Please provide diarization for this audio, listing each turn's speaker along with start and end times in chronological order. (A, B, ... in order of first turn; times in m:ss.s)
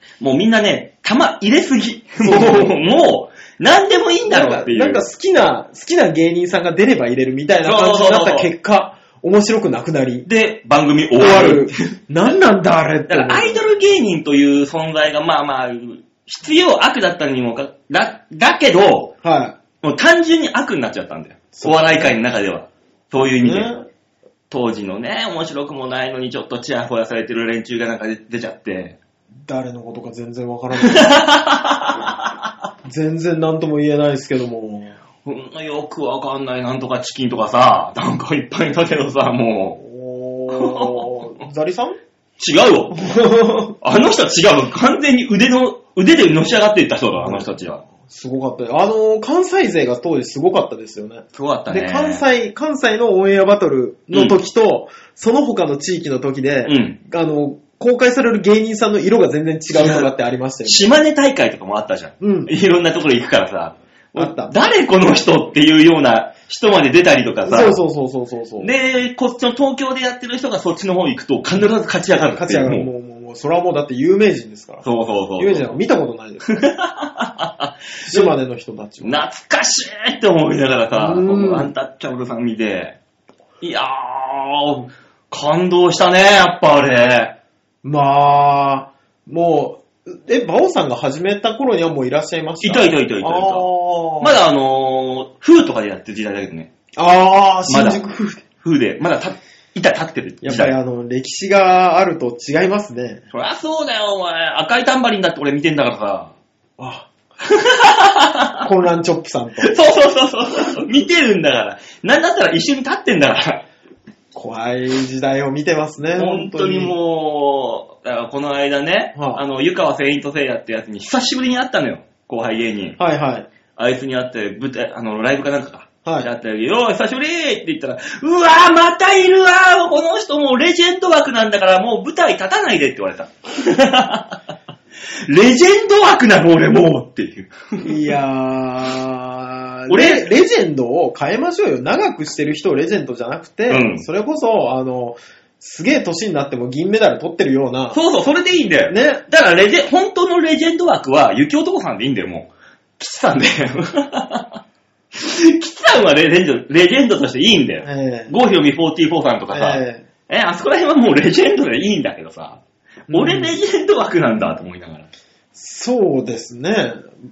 0:00.2-0:05.1 A
0:02.2-0:02.8 B
0:04.3-0:10.3 B
0:07.6-0:08.5 A
0:10.2-0:11.9 A
0:11.2-0:13.7 B
0:13.1-0:19.2 A
0:19.2-0:19.6 B
0:19.8-0:23.8 A
0:21.5-0:22.2 B
0:23.4-0:23.8 B
0:24.5-0:29.0 A
0:29.5-0:31.2 B
0:30.8-0:32.1 A
0:32.8-0:35.0 B
0:35.2-0:39.8 A
0:39.8-0:42.0 B
0:40.5-0:41.4 A
0:42.4-0:43.2 A
0:43.0-0:43.8 B
0:43.8-0:47.8 A
0:47.2-1:00.9 B
0:51.3-0:52.2 A
0:54.1-0:54.4 A
0:56.7-0:57.0 A
0:59.7-1:00.1 A
1:00.6-1:07.8 A
1:02.2-1:02.5 B
1:04.2-1:04.5 B
1:07.4-1:08.7 B
1:08.6-1:12.9 A
1:12.4-1:14.9 B
1:14.8-1:15.7 A
1:15.4-1:16.7 B
1:16.5-1:18.3 A
1:18.1-1:19.2 B
1:19.0-1:23.0 A
1:20.9-1:21.7 B
1:23.6-1:27.4 A
1:27.8-1:34.4 B
1:32.6-1:33.7 A
1:34.2-1:36.7 A
1:37.0-1:38.4 B
1:37.7-1:38.0 A
1:38.6-1:40.7 A
1:40.4-1:43.2 B
1:43.3-1:46.3 A
1:46.8-1:47.1 B
1:47.4-1:48.6 A
1:48.6-1:49.7 B
1:49.6-1:53.6 A
1:54.3-1:56.9 B
1:56.2-2:03.0 A
1:59.2-1:59.4 B
2:03.0-2:03.5 B
2:03.8-2:14.4 A
2:15.2-2:18.0 A
2:17.8-2:28.0 B
2:19.9-2:20.3 A
2:23.7-2:24.1 A
2:27.9-2:34.6 A
2:28.9-2:29.2 B
2:35.1-2:45.1 A
2:37.8-2:38.3 B
2:39.5-2:40.1 B
2:43.1-2:43.6 B
2:45.6-2:47.1 B